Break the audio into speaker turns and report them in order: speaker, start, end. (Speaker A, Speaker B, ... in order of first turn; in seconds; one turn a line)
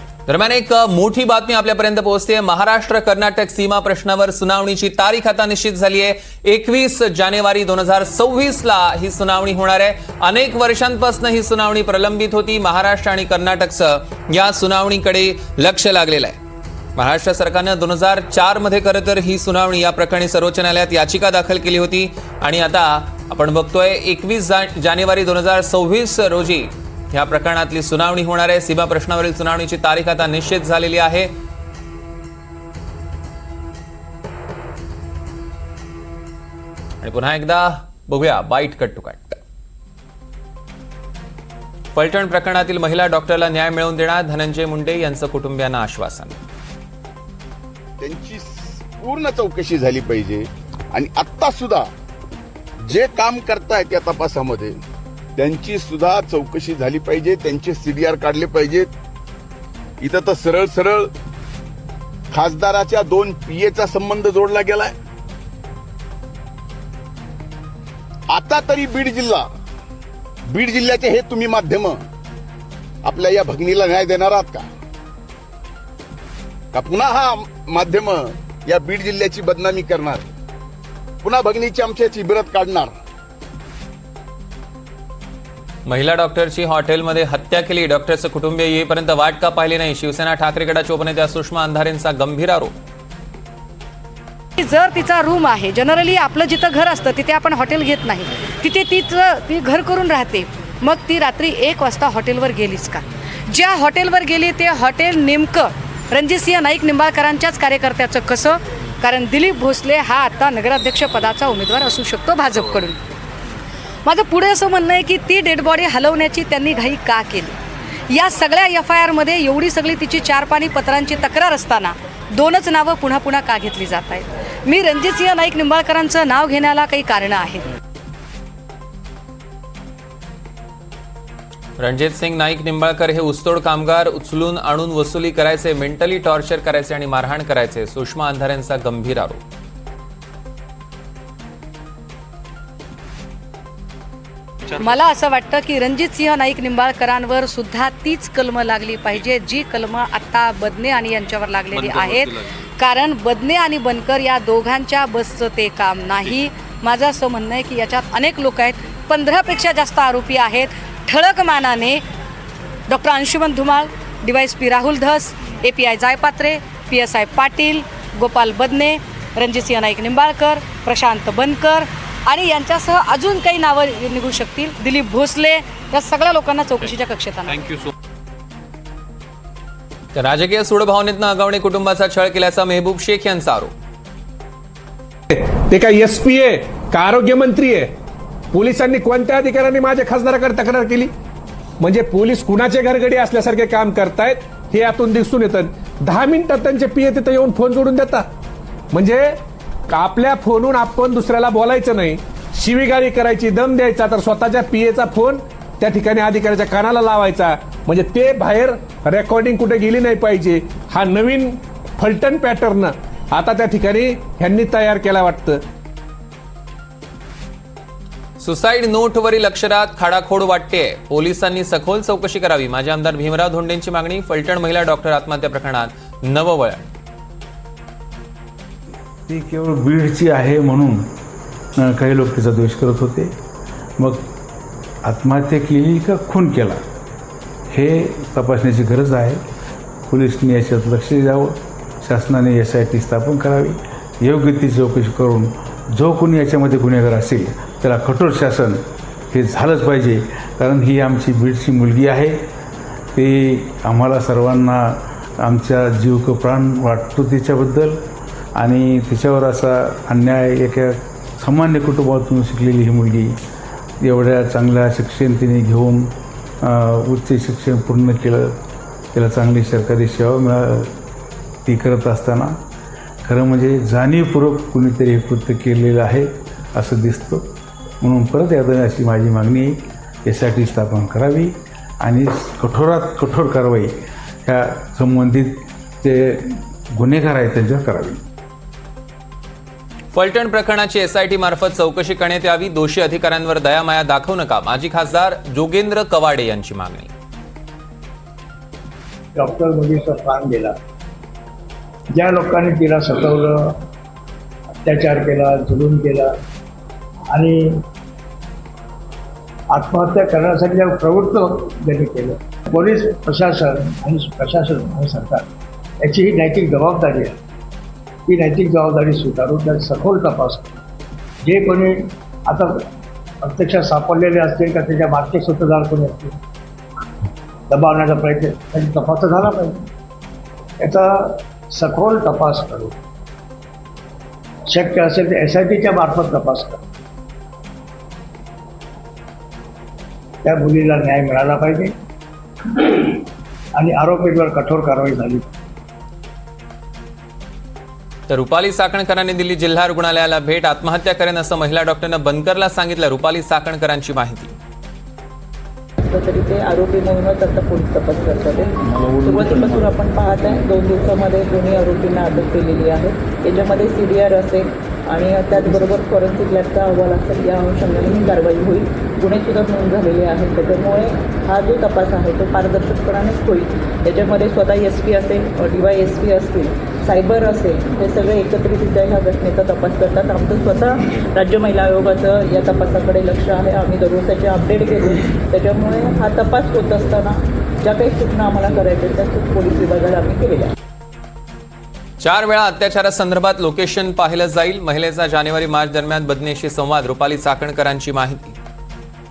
Speaker A: 0.3-16.4
Speaker A: 16.9-31.3
Speaker A: 37.0-39.4
Speaker A: 41.9-46.4
Speaker B: 48.0-51.9
Speaker B: 52.8-54.8
Speaker B: 55.4-58.9
Speaker B: 60.0-61.1
Speaker B: 62.3-64.9
Speaker B: 68.3-69.5
Speaker B: 70.5-72.0
Speaker B: 73.0-74.7
Speaker B: 76.7-80.2
Speaker B: 81.2-82.9
Speaker A: 85.9-92.7
Speaker C: 94.6-112.9
Speaker C: 114.0-117.5
Speaker C: 118.1-127.6
Speaker A: 131.8-139.4
Speaker C: 144.8-162.0
Speaker C: 162.9-177.6
Speaker A: 180.1-183.7
Speaker D: 185.3-187.9
Speaker D: 188.5-191.1
Speaker D: 191.8-198.3
Speaker D: 198.9-215.6
Speaker A: 218.4-226.8
Speaker E: 229.3-231.1
Speaker E: 231.8-233.3
Speaker E: 234.0-234.3
Speaker E: 235.1-236.8
Speaker E: 237.7-239.4
Speaker E: 240.1-248.8
Speaker E: 249.3-252.3
Speaker E: 253.1-258.0
Speaker E: 258.6-263.3
Speaker E: 264.0-266.1
Speaker E: 266.6-268.6
Speaker E: 269.1-270.9
Speaker E: 271.6-272.5
Speaker E: 273.2-277.4
Speaker E: 278.0-283.9
Speaker E: 284.4-288.2
Speaker A: 290.1-297.1
Speaker F: 299.3-300.8
Speaker F: 302.1-303.8
Speaker F: 304.8-306.3
Speaker F: 307.3-307.8
Speaker F: 309.7-315.4
Speaker F: 316.1-317.4
Speaker F: 318.3-320.7
Speaker F: 321.4-322.8
Speaker F: 323.4-326.4
Speaker F: 327.7-329.8
Speaker F: 330.8-332.9
Speaker F: 334.7-336.8
Speaker F: 340.4-341.9
Speaker F: 342.8-343.2
Speaker F: 343.8-345.4
Speaker A: 348.3-354.5
Speaker G: 356.0-390.7
Speaker A: 392.2-398.6